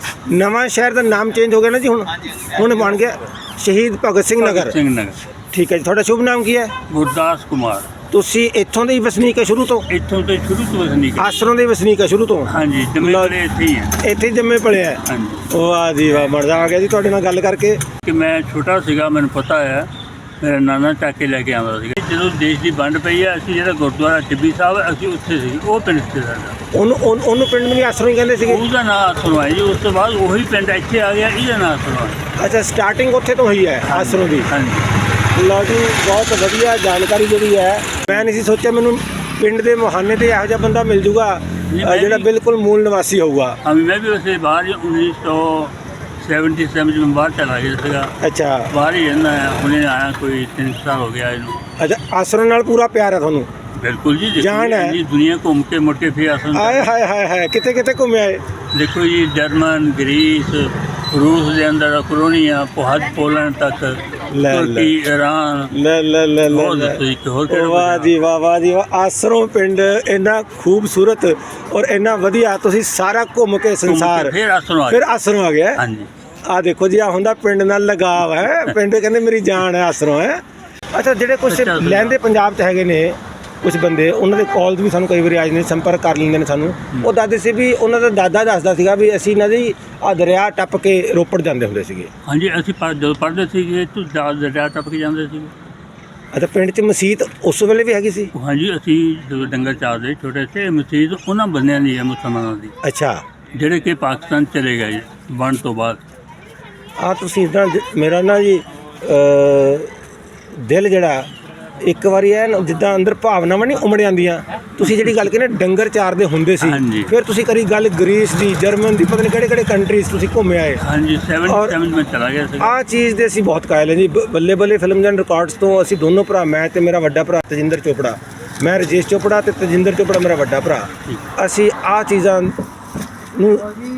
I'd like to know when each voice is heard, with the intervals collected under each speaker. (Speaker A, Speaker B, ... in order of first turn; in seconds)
Speaker A: 0.3-4.8, 5.5-6.7, 8.1-9.9, 11.2-13.3, 14.0-17.9, 26.7-28.6, 32.4-34.5, 35.3-43.6, 48.2-48.7, 51.8-53.5, 54.4-55.0, 56.5-58.4, 64.3-64.9, 65.7-74.3, 74.9-75.8, 76.4-92.1, 96.3-98.3, 102.8-103.2, 107.0-109.9, 110.5-111.3, 111.8-120.8, 121.5-121.8, 122.6-132.6, 133.3-133.8
Speaker B: 2.6-3.0, 4.4-5.2, 6.9-7.9, 9.9-11.3, 12.5-13.9, 15.1-15.4, 18.1-19.9, 20.4-26.6, 28.4-32.2, 33.9-34.9, 41.7-42.3, 43.6-48.1, 48.7-51.6, 53.8-56.9, 58.7-65.7, 66.5-68.1, 73.8-75.0, 75.8-76.1, 81.5-82.2, 92.2-95.5, 98.3-102.7, 103.5-106.0, 114.8-115.3, 116.6-117.1, 120.8-122.7